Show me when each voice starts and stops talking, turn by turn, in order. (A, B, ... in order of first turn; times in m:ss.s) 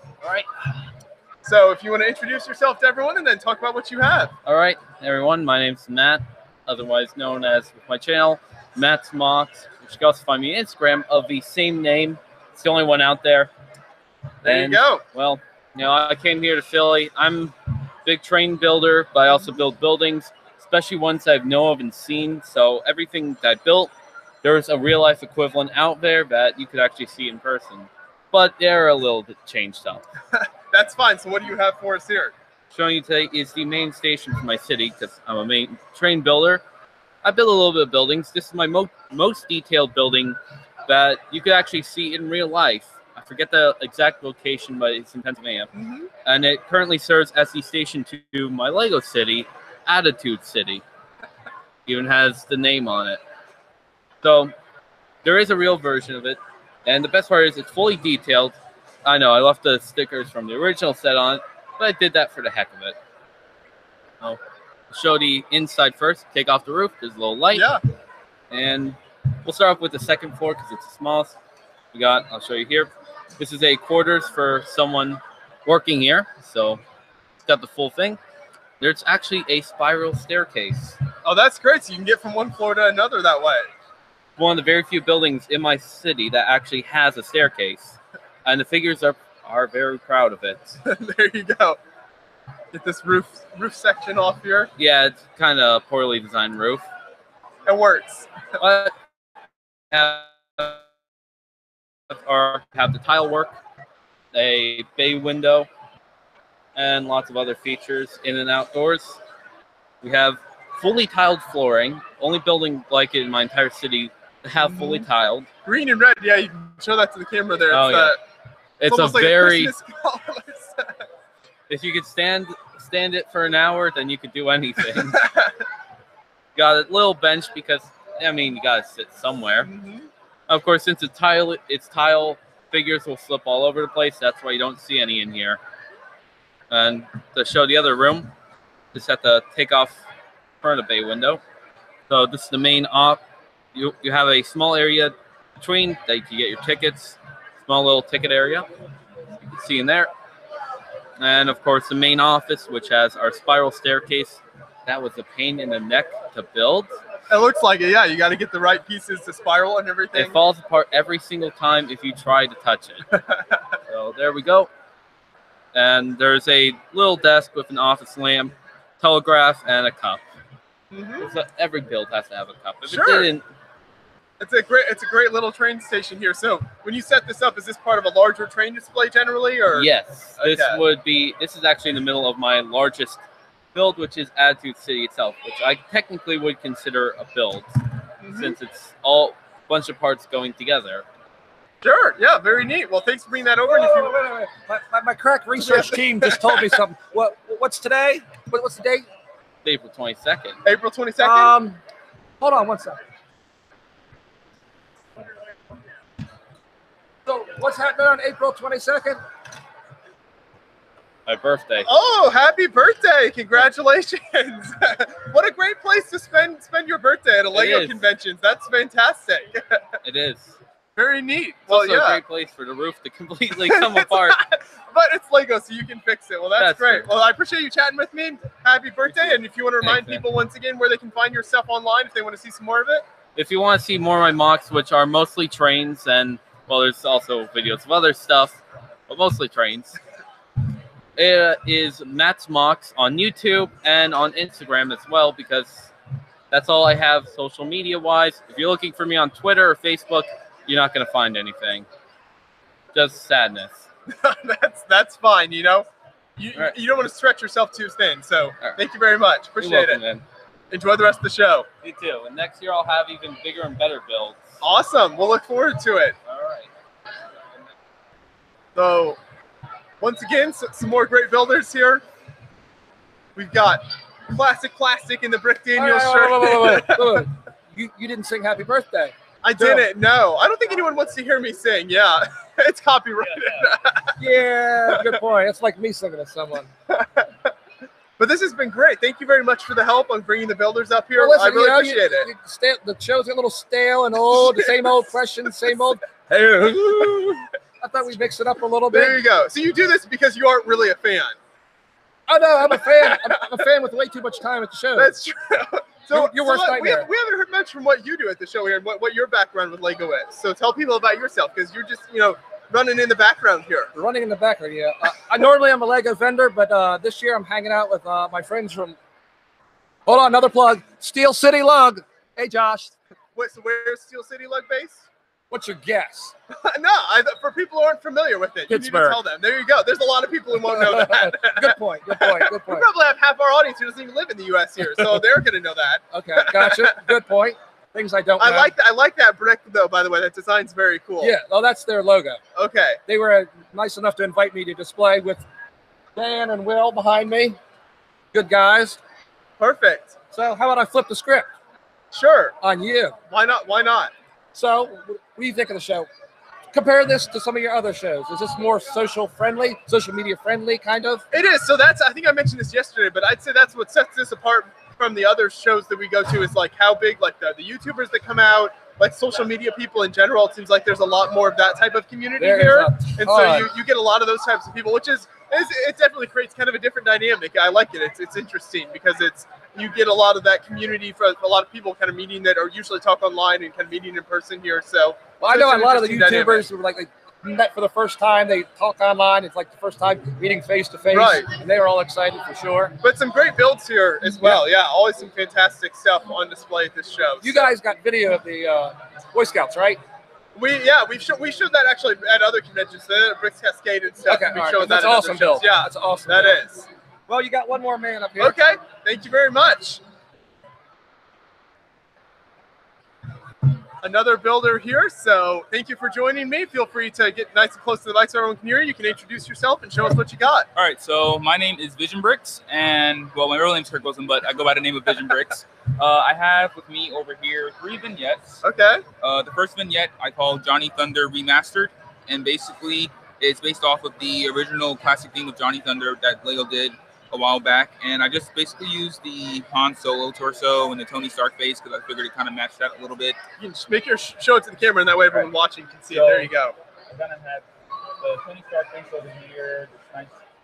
0:00.2-0:00.5 A
0:01.4-0:04.3 B
0:04.4-0:13.5 A
0:14.4-0:30.0 A
0:14.4-0:15.0 B
0:30.3-0:32.3 B
0:32.7-0:36.6 A
0:37.2-0:45.7 A
0:45.8-0:46.1 B
0:46.2-0:50.8 A
0:51.9-0:53.2 A
0:54.2-0:54.5 A
0:55.2-1:03.0 A
1:04.2-1:07.7 A
1:07.5-1:07.8 B
1:08.5-1:11.4 A
1:11.9-1:16.8 A
1:17.4-1:18.2 A
1:18.8-1:21.0 A
1:21.2-1:23.7 B
1:24.4-1:30.8 A
1:30.8-1:31.8 B
1:32.7-1:34.7 B
1:34.8-1:36.8 A
1:37.7-1:38.3 B
1:38.6-1:38.9 A
1:39.9-1:40.8 A
1:42.1-1:43.6 A
1:44.3-1:45.7 A
1:46.8-1:49.2 A
1:50.0-1:55.5 A
1:54.6-1:55.0 B
1:55.6-1:58.2 B
1:57.7-1:58.2 A
1:58.8-1:59.7 A
1:58.8-2:01.1 B
2:01.7-2:05.2 A
2:05.0-2:05.6 B
2:06.6-2:09.7 A
2:09.6-2:10.1 B
2:10.5-2:15.6 A
2:16.7-2:18.3 A
2:18.9-2:20.0 A
2:20.6-2:21.4 A
2:22.1-2:23.2 A
2:23.8-2:28.7 A
2:29.5-2:30.1 A
2:31.2-2:37.0 A
2:37.3-2:40.4 B
2:40.2-2:43.1 A
2:43.1-2:43.6 B
2:43.9-2:44.7 A
2:45.7-2:50.2 A
2:50.9-2:51.3 B
2:51.2-2:53.4 A
2:52.8-2:53.3 B
2:54.4-3:00.8 B
2:59.7-3:03.2 A
3:03.7-3:07.7 A
3:08.2-3:08.6 B
3:08.3-3:11.0 A
3:11.8-3:14.2 B
3:13.6-3:19.0 C
3:15.6-3:16.8 B
3:19.6-3:20.6 A
3:20.6-3:21.6 B
3:21.2-3:21.8 C
3:22.4-3:23.0 C
3:27.3-3:29.2 C
3:31.3-3:31.9 A
3:31.8-3:39.9 B
3:37.5-3:38.0 A
3:40.0-3:40.6 A
3:41.0-3:42.2 B
3:41.7-3:44.4 A
3:43.7-3:53.1 B
3:46.6-3:47.1 A
3:49.1-3:50.2 A
3:53.4-4:00.0 A
4:01.2-4:05.9 A
4:06.5-4:11.9 A
4:12.9-4:13.9 A
4:14.1-4:20.0 B
4:19.6-4:20.2 A
4:20.7-4:21.7 B
4:21.8-4:24.5 A
4:24.6-4:26.2 B
4:26.3-4:26.7 A
4:28.8-4:29.2 B
4:30.0-4:32.0 B
4:33.4-4:37.3 B
4:35.8-4:39.9 C
4:39.4-4:44.2 B
4:44.2-4:46.7 C
4:44.9-4:45.2 B
4:46.9-4:47.5 B
4:48.2-4:52.3 B
4:51.2-4:59.2 C
4:54.6-4:55.0 B
4:58.9-5:01.4 B
5:02.3-5:05.2 C
5:02.8-5:03.4 B
5:05.0-5:13.9 B
5:06.1-5:07.1 C
5:14.0-5:19.0 C
5:20.1-5:23.0 C
5:23.4-5:25.0 B
5:25.5-5:26.4 C
5:26.5-5:37.1 B
5:28.7-5:29.2 C
5:30.6-5:32.9 C
5:35.0-5:35.2 C
5:36.1-5:38.7 C
5:38.4-5:41.4 B
5:41.2-5:42.4 C
5:42.6-5:43.0 B
5:43.1-5:45.4 C
5:46.2-5:47.6 C
5:48.3-5:49.0 C
5:49.6-5:50.1 B
5:50.3-5:51.5 C
5:52.1-5:52.6 B
5:52.6-5:53.2 C
5:53.3-5:54.1 B
5:54.5-5:56.1 C
5:56.7-6:01.2 C
6:01.3-6:26.7 B
6:12.4-6:13.7 C
6:25.4-6:33.0 C
6:31.1-6:31.5 B
6:33.0-6:37.7 B
6:37.4-6:40.0 C
6:40.6-6:46.8 B
6:44.3-6:46.6 C
6:47.3-6:48.6 C
6:48.4-6:50.0 B
6:54.0-7:00.7 B
7:00.8-7:08.6 D
7:08.6-7:09.0 B
7:09.2-7:23.4 D
7:23.6-7:26.7 B
7:26.1-7:26.5 D
7:27.1-7:27.6 D
7:28.2-7:30.4 D